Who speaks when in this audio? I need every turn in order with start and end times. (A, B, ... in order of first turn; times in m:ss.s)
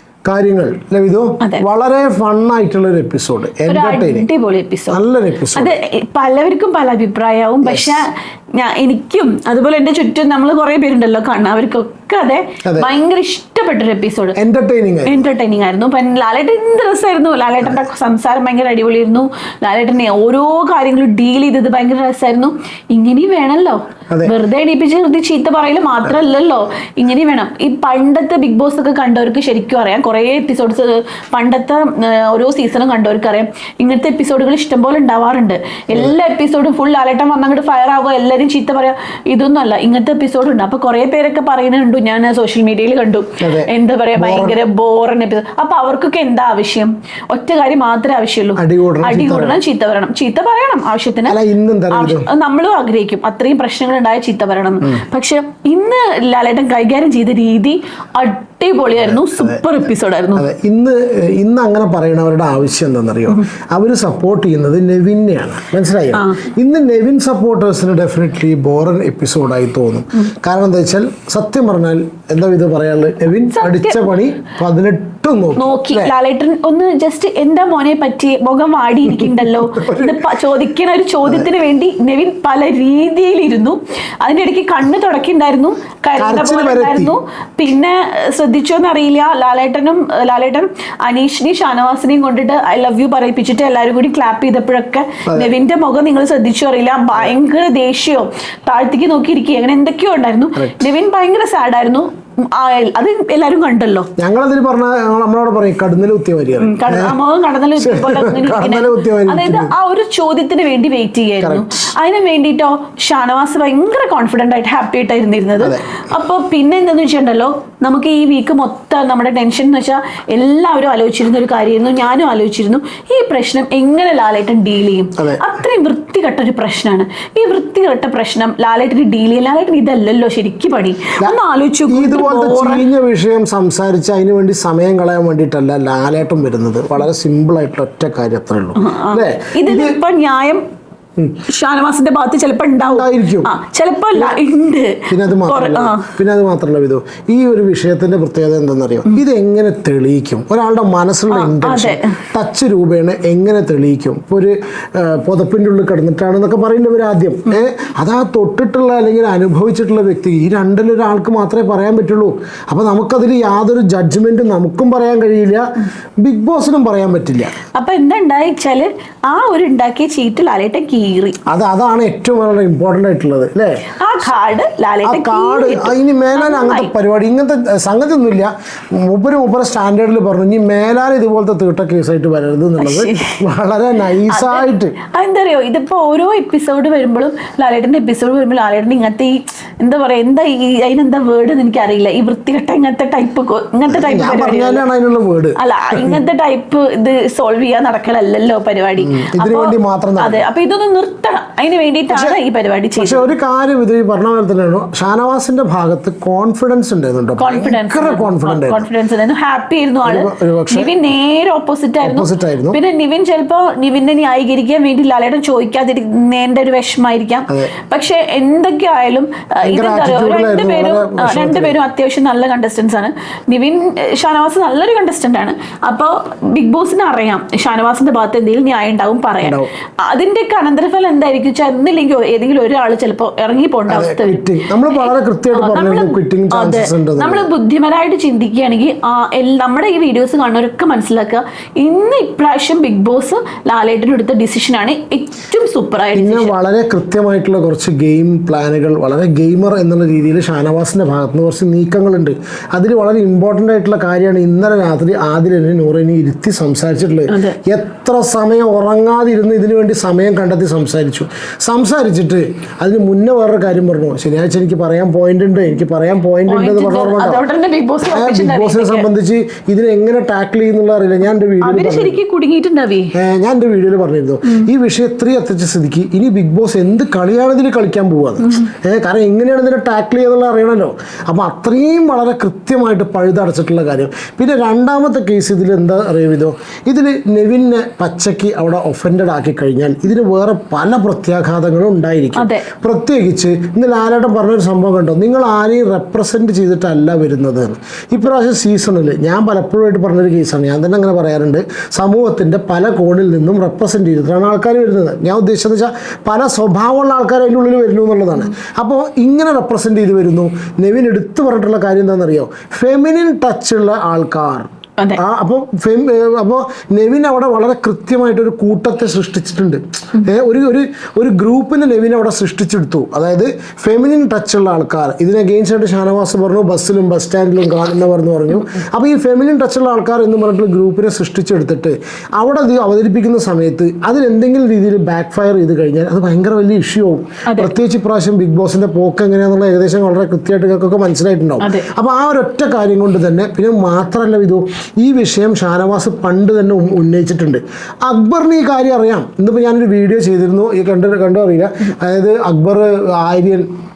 0:00.2-0:04.3 A
0:03.7-0:05.0 B
0:04.9-0:05.7 A
0:05.5-0:14.4 B
0:07.6-0:08.0 A
0:12.6-0:12.9 A
0:14.3-0:15.2 A
0:15.0-0:51.4 B
0:43.4-0:44.6 A
0:48.6-0:49.6 A
0:51.3-0:52.3 A
0:51.9-1:00.4 B
0:59.0-0:59.6 A
1:00.3-1:16.1 A
1:06.1-1:06.4 B
1:13.5-1:14.1 B
1:15.6-1:44.1 B
1:19.1-1:20.3 A
1:26.2-1:27.1 A
1:35.2-1:35.5 A
1:40.6-1:40.9 A
1:44.2-1:47.1 A
1:46.6-2:12.8 B
1:47.8-1:49.7 A
1:51.4-1:51.9 A
1:55.6-1:55.8 A
2:05.2-2:05.4 A
2:11.9-2:20.0 A
2:18.8-2:20.6 B
2:21.4-2:26.1 B
2:22.8-2:23.5 A
2:25.1-2:45.7 A
2:31.3-2:32.2 B
2:46.2-2:47.6 A
2:47.7-2:51.4 B
2:51.4-2:53.8 A
2:54.0-2:56.9 B
2:55.0-3:05.0 A
3:02.8-3:03.4 B
3:04.3-3:14.8 B
3:13.9-3:16.2 A
3:15.6-3:23.3 B
3:19.0-3:20.4 A
3:22.1-3:22.4 A
3:23.0-3:28.8 A
3:27.4-4:06.5 B
3:30.0-3:30.9 A
3:32.0-3:32.8 A
3:39.6-3:41.8 A
3:49.4-3:49.7 A
3:53.9-3:57.5 A
4:06.1-4:27.4 A
4:17.3-4:17.6 B
4:26.5-4:29.1 B
4:28.0-4:32.2 A
4:31.6-4:33.1 B
4:33.1-5:53.7 A
4:52.4-4:52.7 B
5:37.4-5:37.7 B
5:41.6-5:41.9 B